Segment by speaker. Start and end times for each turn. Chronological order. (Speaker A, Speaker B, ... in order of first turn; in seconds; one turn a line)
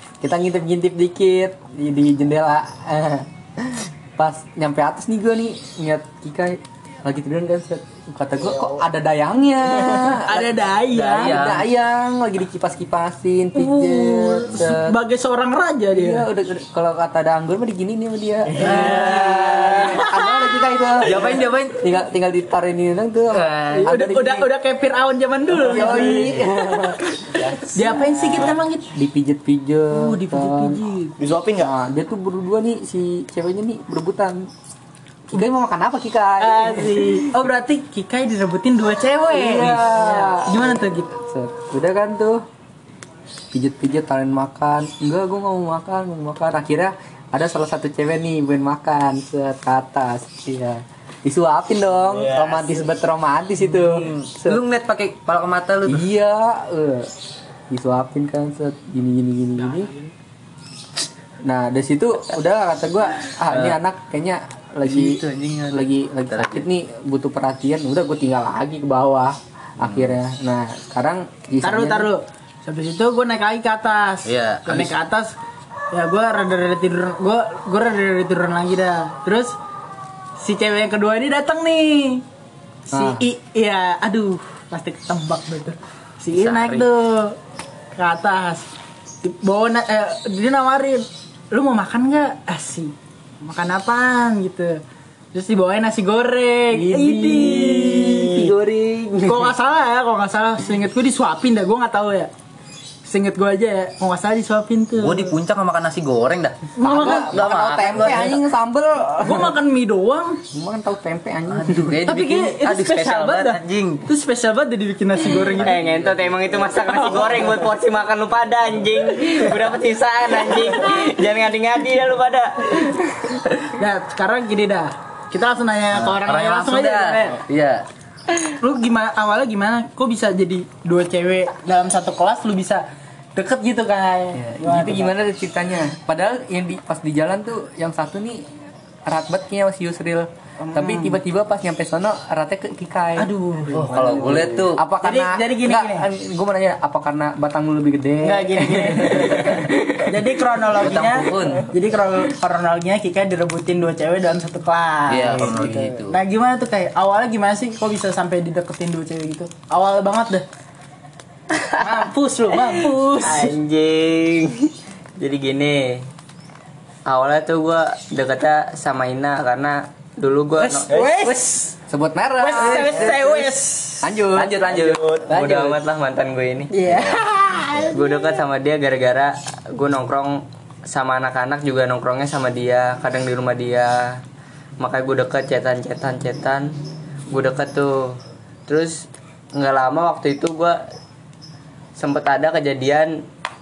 Speaker A: 0.2-14.9
Speaker B: 9.7-11.4
Speaker C: 10.9-11.6
Speaker B: 13.5-16.2
Speaker A: 15.9-24.5
Speaker B: 18.6-20.6
Speaker C: 21.1-21.8
Speaker B: 23.7-27.0
Speaker A: 25.5-27.5
Speaker B: 27.7-28.9
Speaker A: 28.2-30.8
Speaker B: 29.9-31.2
Speaker D: 31.2-31.7
Speaker A: 31.6-34.5
Speaker A: 35.3-37.3
Speaker B: 36.4-41.1
Speaker A: 39.3-42.4
Speaker A: 43.5-54.6
Speaker D: 52.1-52.9
Speaker C: 53.7-56.0
Speaker A: 55.9-57.1
Speaker A: 57.7-59.9
Speaker A: 61.4-72.1
Speaker C: 63.5-63.8
Speaker C: 64.8-66.7
Speaker C: 69.8-70.2
Speaker B: 71.6-75.3
Speaker C: 74.2-74.9
Speaker B: 75.9-79.5
Speaker B: 80.4-82.2
Speaker B: 82.9-87.4
Speaker C: 82.9-83.2
Speaker C: 86.3-86.9
Speaker B: 88.0-88.7
Speaker B: 89.2-94.8
Speaker B: 95.3-98.5
Speaker A: 96.7-99.5
Speaker B: 99.2-102.3
Speaker B: 103.0-105.3
Speaker C: 105.0-108.4
Speaker B: 106.8-107.8
Speaker A: 106.8-109.5
Speaker B: 109.2-110.4
Speaker A: 110.5-112.0
Speaker C: 111.5-114.0
Speaker B: 112.0-115.8
Speaker C: 115.3-116.3
Speaker E: 115.6-123.5
Speaker B: 116.8-117.6
Speaker B: 123.8-127.4
Speaker C: 125.9-127.8
Speaker B: 128.5-135.1
Speaker A: 134.4-138.5
Speaker A: 139.1-150.3
Speaker B: 140.6-141.2
Speaker B: 143.2-143.9
Speaker C: 143.7-144.8
Speaker B: 145.0-146.1
Speaker B: 148.2-160.4
Speaker C: 150.8-151.7
Speaker C: 155.1-156.2
Speaker E: 161.6-161.9
Speaker B: 161.8-163.5
Speaker E: 163.2-166.1
Speaker E: 167.1-170.9
Speaker B: 170.6-171.7
Speaker D: 170.9-171.3
Speaker A: 171.9-173.2
Speaker B: 172.4-174.1
Speaker C: 172.6-173.4
Speaker A: 174.0-175.0
Speaker C: 174.3-175.7
Speaker D: 174.6-175.6
Speaker E: 175.3-176.7
Speaker B: 176.7-178.3
Speaker E: 177.9-184.2
Speaker E: 184.8-186.7
Speaker E: 187.3-190.8
Speaker E: 191.9-193.2